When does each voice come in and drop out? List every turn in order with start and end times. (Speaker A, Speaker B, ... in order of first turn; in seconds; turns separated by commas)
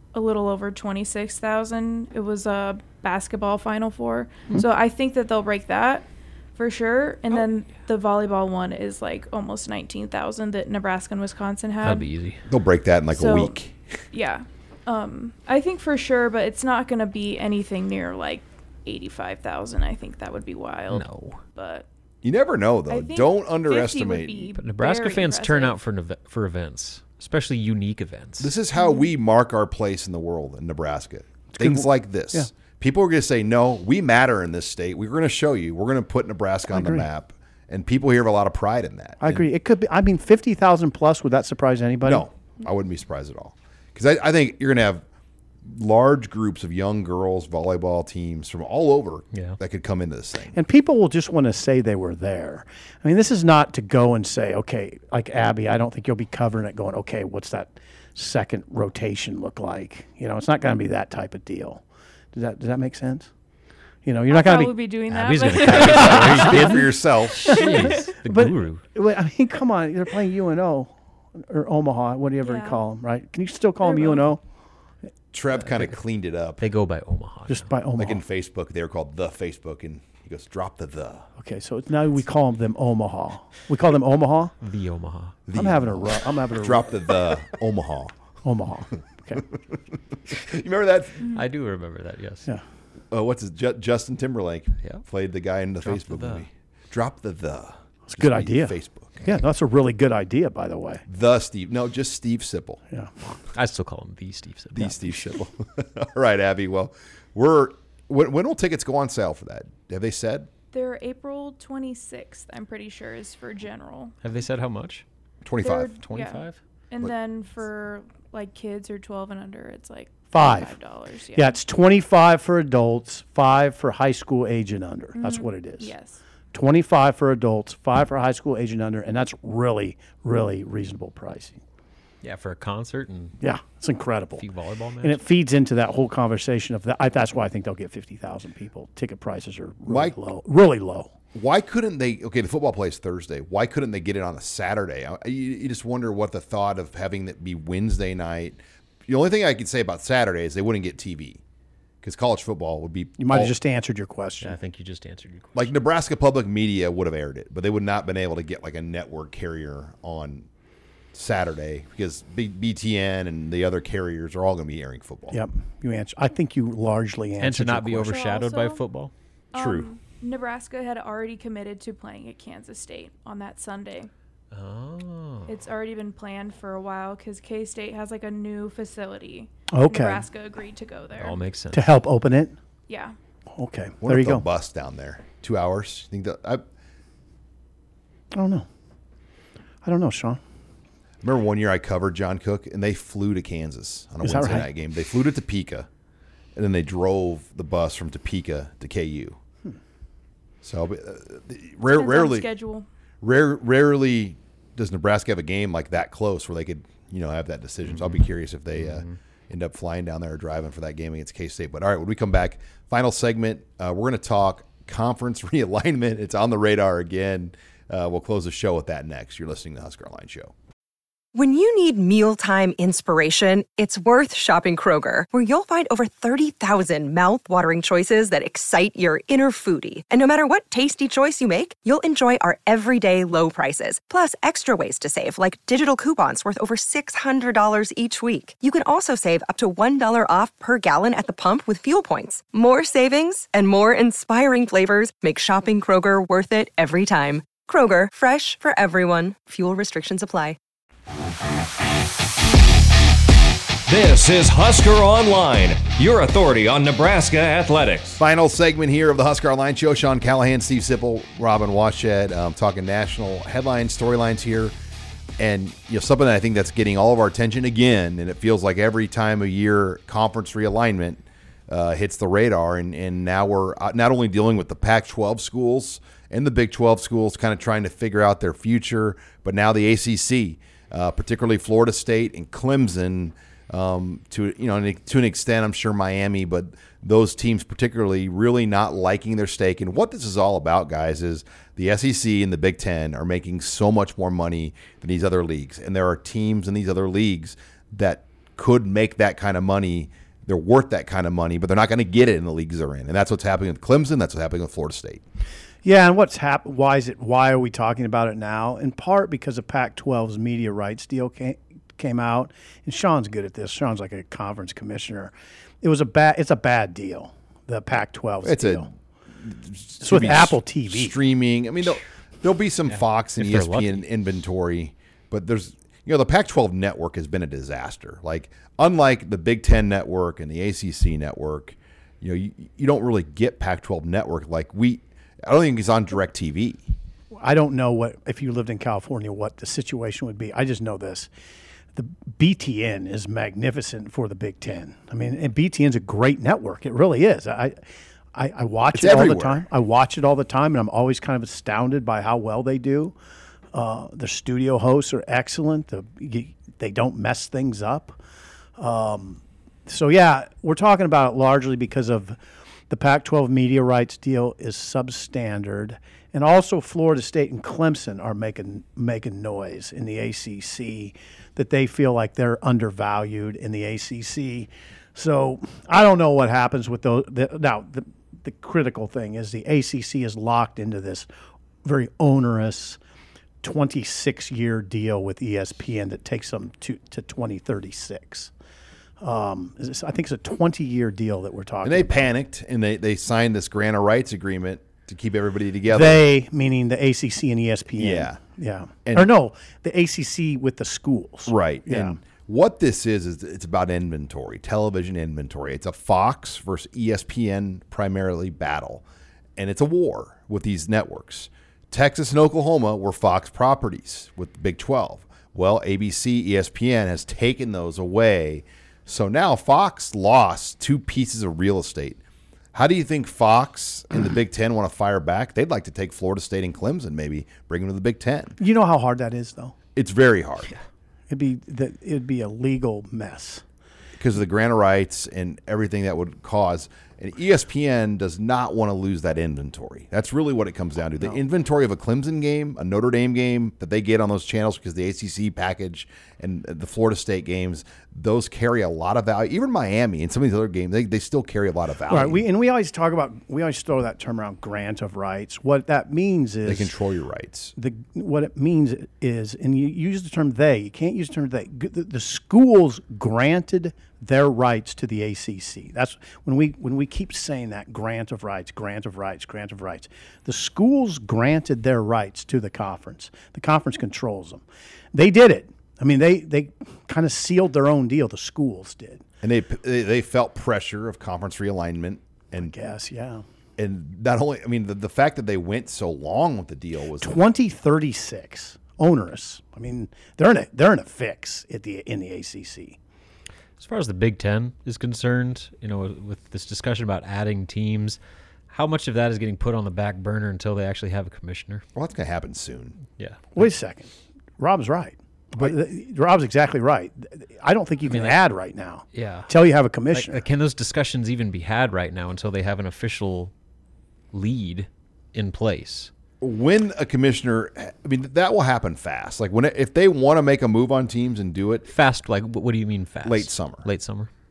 Speaker A: 0.1-12.1, Speaker B: 11.8-12.4, Speaker C: 12.5-13.8, Speaker A: 13.1-13.6, Speaker A: 14.1-21.9, Speaker B: 20.9-21.4, Speaker C: 22.2-24.5, Speaker A: 22.9-25.8, Speaker B: 24.6-28.5, Speaker C: 28.4-39.4, Speaker A: 28.8-29.1, Speaker D: 31.5-32.5, Speaker D: 36.7-37.0, Speaker D: 39.2-42.2, Speaker C: 42.0-45.0, Speaker C: 45.6-50.5, Speaker B: 49.3-49.6, Speaker D: 50.5-61.8, Speaker D: 62.3-63.3, Speaker D: 64.0-64.7, Speaker A: 64.3-66.9, Speaker B: 65.1-68.8, Speaker C: 65.7-67.5, Speaker A: 67.4-68.1, Speaker D: 68.0-74.4, Speaker A: 72.4-72.8, Speaker A: 73.8-74.2, Speaker C: 75.3-76.6, Speaker B: 76.6-77.7, Speaker D: 77.5-78.2, Speaker C: 78.0-81.3, Speaker D: 81.4-84.5, Speaker B: 84.6-85.4, Speaker C: 85.5-88.1, Speaker D: 85.5-87.0, Speaker D: 88.4-89.4, Speaker C: 90.3-91.3, Speaker B: 91.2-92.5, Speaker C: 93.1-99.2, Speaker B: 95.8-96.5, Speaker D: 98.1-101.0, Speaker C: 101.1-102.8, Speaker B: 103.5-105.0, Speaker C: 104.7-110.5, Speaker A: 110.7-114.2, Speaker B: 114.2-115.0, Speaker C: 115.4-115.9, Speaker A: 115.6-121.6, Speaker B: 116.0-116.6, Speaker D: 120.3-120.7, Speaker D: 121.3-125.9, Speaker A: 125.2-126.2, Speaker D: 126.5-131.6, Speaker B: 132.2-133.4, Speaker D: 133.4-134.4, Speaker B: 134.4-135.2, Speaker D: 135.0-141.1, Speaker C: 139.9-140.2, Speaker C: 141.3-151.4, Speaker C: 152.0-153.5, Speaker D: 153.2-154.5, Speaker B: 154.4-155.7, Speaker C: 155.5-160.5, Speaker C: 161.1-165.4, Speaker D: 165.3-168.1, Speaker B: 167.4-169.1, Speaker A: 168.1-168.8, Speaker A: 169.5-174.1, Speaker C: 169.5-169.9, Speaker B: 174.5-175.5, Speaker A: 175.5-181.4, Speaker D: 179.7-180.2, Speaker B: 181.2-181.9, Speaker D: 181.7-182.6, Speaker A: 182.9-183.2, Speaker D: 183.6-184.4, Speaker C: 184.0-186.6, Speaker D: 188.3-188.7, Speaker D: 189.8-190.4, Speaker C: 191.2-195.9, Speaker D: 194.2-194.7, Speaker C: 196.6-199.4, Speaker C: 200.6-202.5, Speaker A: 201.8-202.8, Speaker C: 203.2-220.5, Speaker B: 208.8-209.1, Speaker E: 221.3-250.6, Speaker F: 253.9-258.2, Speaker C: 258.2-264.7, Speaker C: 265.4-305.2, Speaker D: 305.8-318.9, Speaker C: 318.4-318.9, Speaker C: 319.4-336.8, Speaker D: 320.0-321.1, Speaker B: 323.4-324.0, Speaker D: 337.3-341.3, Speaker D: 341.9-347.8, Speaker D: 348.3-353.1, Speaker C: 348.9-349.6, Speaker D: 353.7-358.2, Speaker D: 358.8-362.4, Speaker D: 362.9-381.3, Speaker D: 381.8-383.0, Speaker D: 383.6-388.5, Speaker D: 389.2-392.3, Speaker C: 391.8-396.2, Speaker D: 395.9-402.2, Speaker C: 397.9-398.4, Speaker C: 399.0-399.3, Speaker C: 401.5-409.0, Speaker C: 409.6-422.2, Speaker C: 422.7-428.6, Speaker D: 428.6-429.7, Speaker C: 429.9-430.7, Speaker D: 431.3-433.6, Speaker C: 434.2-452.4, Speaker D: 452.1-456.9, Speaker C: 456.6-457.7, Speaker D: 457.8-479.2, Speaker C: 479.4-482.7, Speaker D: 482.6-483.4, Speaker C: 483.8-487.4, Speaker D: 487.2-493.0, Speaker B: 493.8-498.2, Speaker B: 498.7-501.8, Speaker C: 501.9-503.0, Speaker B: 503.2-503.7, Speaker D: 503.5-510.4, Speaker B: 508.1-508.4, Speaker B: 509.1-509.5, Speaker B: 510.1-513.5, Speaker B: 514.3-516.1, Speaker C: 516.4-521.9, Speaker B: 521.9-524.3, Speaker C: 523.2-523.9